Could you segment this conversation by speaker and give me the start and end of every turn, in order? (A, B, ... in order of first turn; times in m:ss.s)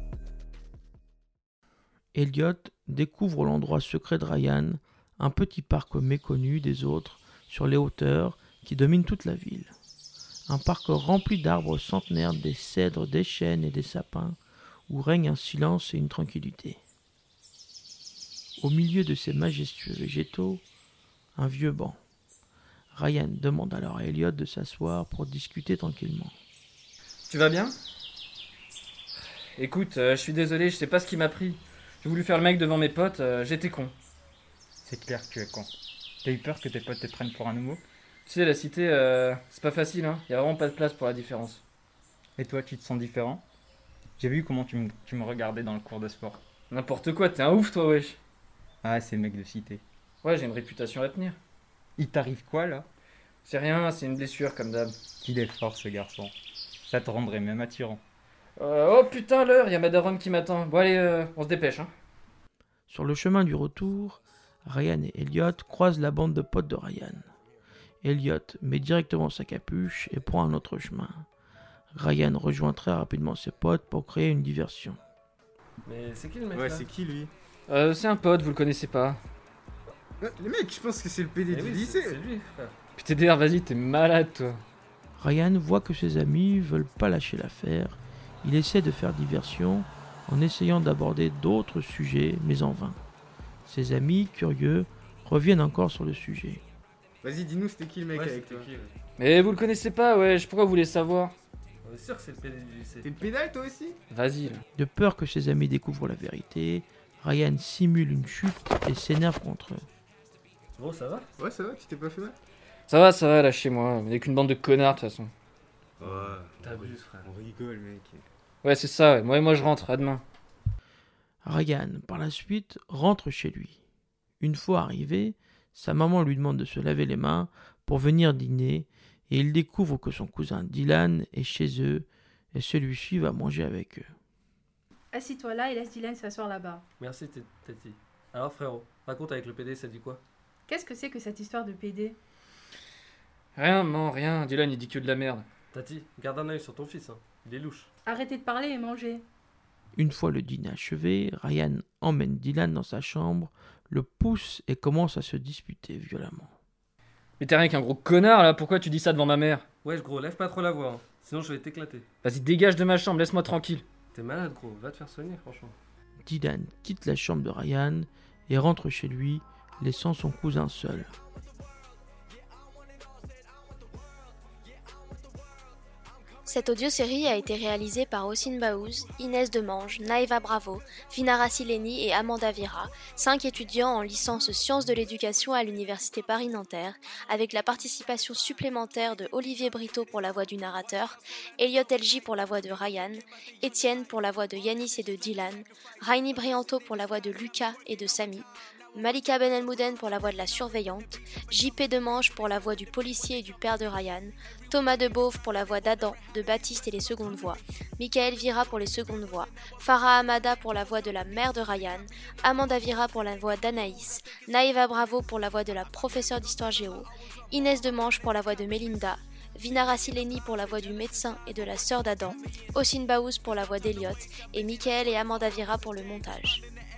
0:02.1-0:09.7 A
0:10.5-0:14.4 A
0:14.9-0:16.8 A
0:18.6-0:20.6 A
0:21.4-0:22.0 A
0:22.9-0:26.3 A
0:27.3-0:27.8 B
0:29.6-0:33.9 B
0:34.8-0:35.7 C
0:36.2-0:37.8 C
0:38.2-0:41.6 B
0:42.4-0:43.4 C
0:44.2-0:46.4 C
0:46.7-0:48.2 B
0:48.8-0:49.8 C
0:50.2-0:51.4 B
0:52.0-0:52.9 C
0:53.4-0:55.0 B
0:55.2-0:56.3 C
0:56.9-0:58.0 C
0:58.6-1:01.9 B
1:02.9-1:07.3 A
1:08.0-1:11.2 A
1:11.9-1:15.0 A
1:15.8-1:16.9 D
1:16.5-1:17.3 E
1:17.7-1:19.2 B
1:20.2-1:22.2 E
1:21.5-1:22.8 D
1:23.0-1:24.6 B
1:25.2-1:33.0 A
1:33.7-1:36.6 A
1:37.2-1:38.7 E
1:38.1-1:38.9 D
1:39.2-1:41.3 B
1:41.8-1:43.1 D
1:43.0-1:44.0 E
1:44.1-1:44.6 B
1:44.8-1:49.8 A
1:50.8-1:51.3 D
1:51.4-1:52.4 E
1:52.9-1:55.3 B
1:56.0-1:58.2 E
1:56.0-1:57.3 D
1:58.6-2:00.2 B
2:01.4-2:03.8 A
2:04.4-2:14.1 A
2:15.1-2:16.8 F
2:17.0-2:20.2 D
2:20.7-2:22.2 F
2:23.6-2:25.4 B
2:25.7-2:27.9 D
2:28.0-2:29.2 F
2:30.0-2:36.5 A
2:37.4-2:39.6 B
2:39.8-2:42.1 D
2:42.2-2:43.8 B
2:44.1-2:45.8 D
2:46.2-2:51.1 A
2:56.4-3:46.6 G